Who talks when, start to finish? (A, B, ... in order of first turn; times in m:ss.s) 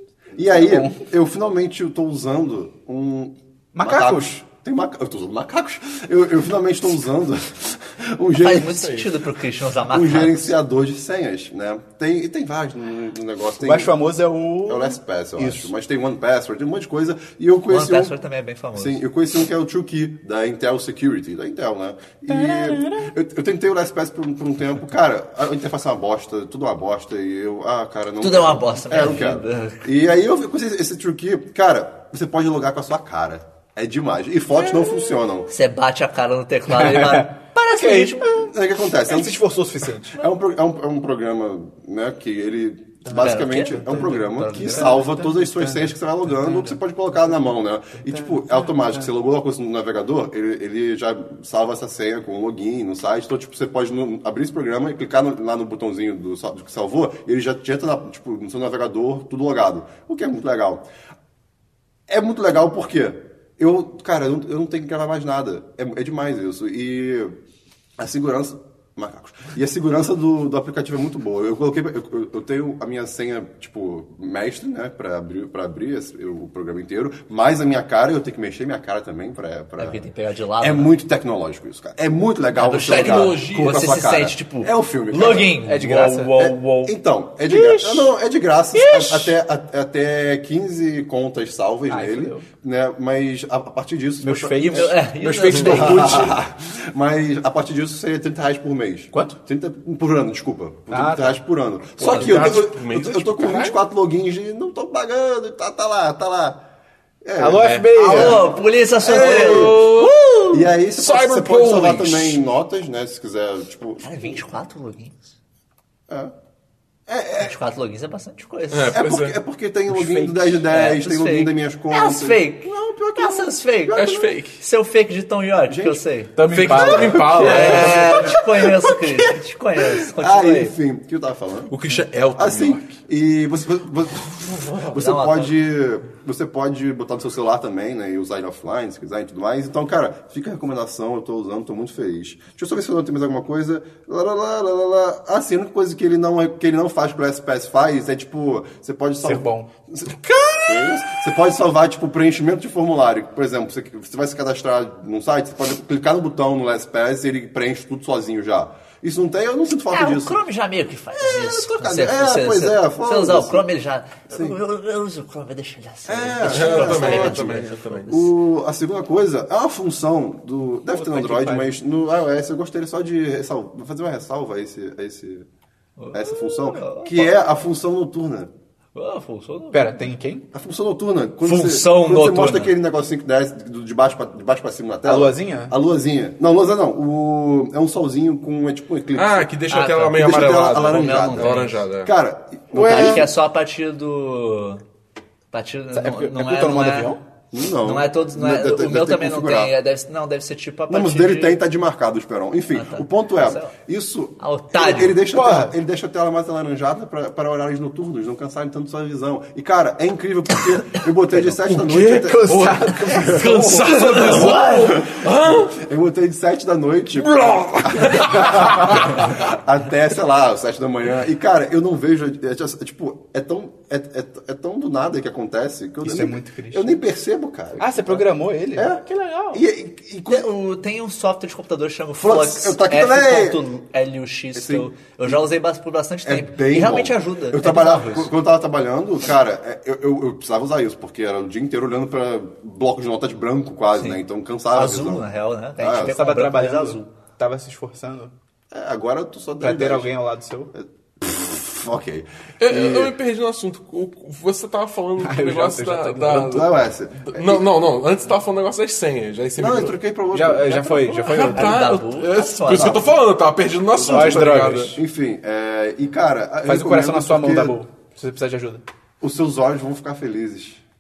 0:00.3-0:08.7 A
0:00.4-0:01.0 B
0:03.7-0:04.4 B
0:08.3-0:10.5 C
0:08.7-0:09.1 D
0:09.9-0:13.9 A
0:13.6-0:15.7 B
0:14.6-0:18.2 A
0:17.7-0:19.0 C
0:18.7-0:35.5 A
0:22.3-0:23.1 B
0:28.2-0:29.8 C
0:35.5-0:38.5 C
0:36.7-0:40.2 B
0:38.3-0:39.4 A
0:40.1-1:00.9 A
0:43.0-0:49.1 B
0:43.1-0:45.1 C
1:02.1-1:07.3 A
1:08.0-1:20.0 A
1:19.8-1:20.9 C
1:20.6-1:25.6 A
1:22.5-1:26.9 C
1:22.8-1:23.9 D
1:25.6-1:26.4 B
1:26.2-1:46.6 A
1:27.5-1:28.1 B
1:28.7-1:29.4 B
1:31.9-1:32.4 B
1:34.2-1:36.2 B
1:34.6-1:36.4 C
1:35.5-1:35.9 D
1:39.1-1:39.4 B
1:40.9-1:41.4 B
1:42.0-1:42.6 C
1:42.0-1:43.8 D
1:47.2-1:54.4 A
1:47.4-1:48.5 B
1:47.6-1:47.9 D
1:47.9-1:50.6 C
1:49.0-1:50.4 D
1:51.0-1:52.4 D
1:54.0-1:55.3 C
1:57.1-1:57.5 A
1:57.4-1:59.0 C
1:58.7-1:59.4 D
1:58.9-2:04.3 A
1:59.9-2:00.6 B
2:00.6-2:06.3 C
2:03.9-2:04.6 D
2:05.7-2:06.0 A
2:06.4-2:09.0 B
2:06.4-2:08.3 D
2:06.7-2:07.8 A
2:07.3-2:10.7 C
2:10.2-2:11.7 A
2:11.7-2:12.9 D
2:12.4-2:40.4 A
2:14.9-2:15.5 C
2:29.2-2:29.7 B
2:30.2-2:31.0 D
2:39.9-2:48.2 C
2:41.2-2:43.6 A
2:44.3-2:44.6 A
2:46.1-2:55.4 A
2:46.4-2:48.2 D
2:50.9-2:51.7 B
2:56.0-2:57.4 C
2:56.1-2:58.5 A
2:58.9-3:00.1 C
2:59.7-3:00.4 B
3:00.5-3:09.5 A
3:01.4-3:02.7 C
3:05.0-3:05.8 B
3:09.2-3:12.1 D
3:09.7-3:11.8 C
3:10.1-3:13.3 A
3:12.7-3:13.3 B
3:12.8-3:14.8 C
3:15.5-3:17.2 C
3:15.9-3:17.2 B
3:17.5-3:19.7 A
3:17.8-3:21.6 C
3:20.9-3:50.5 A
3:22.7-3:23.8 C
3:24.4-3:25.2 C
3:25.3-3:25.8 B
3:31.3-3:34.1 B
3:31.6-3:35.8 D
3:34.0-3:35.0 C
3:37.1-3:39.4 D
3:46.0-3:46.9 B
3:47.8-3:49.6 B
3:50.3-3:58.3 C
3:52.2-3:53.6 A
3:54.5-3:55.4 A
3:56.2-4:06.2 A
4:03.9-4:07.1 C
4:06.1-4:08.3 B
4:08.7-4:10.1 A
4:09.6-4:10.7 B
4:10.7-4:13.1 A
4:12.6-4:20.0 D
4:15.2-4:16.7 B
4:16.4-4:17.6 A
4:19.6-4:21.4 A
4:20.3-4:21.8 B
4:21.2-4:25.0 D
4:21.5-4:23.2 C
4:22.7-4:23.1 A
4:23.9-4:27.8 A
4:24.0-4:25.0 B
4:26.6-4:28.8 B
4:29.2-4:30.8 A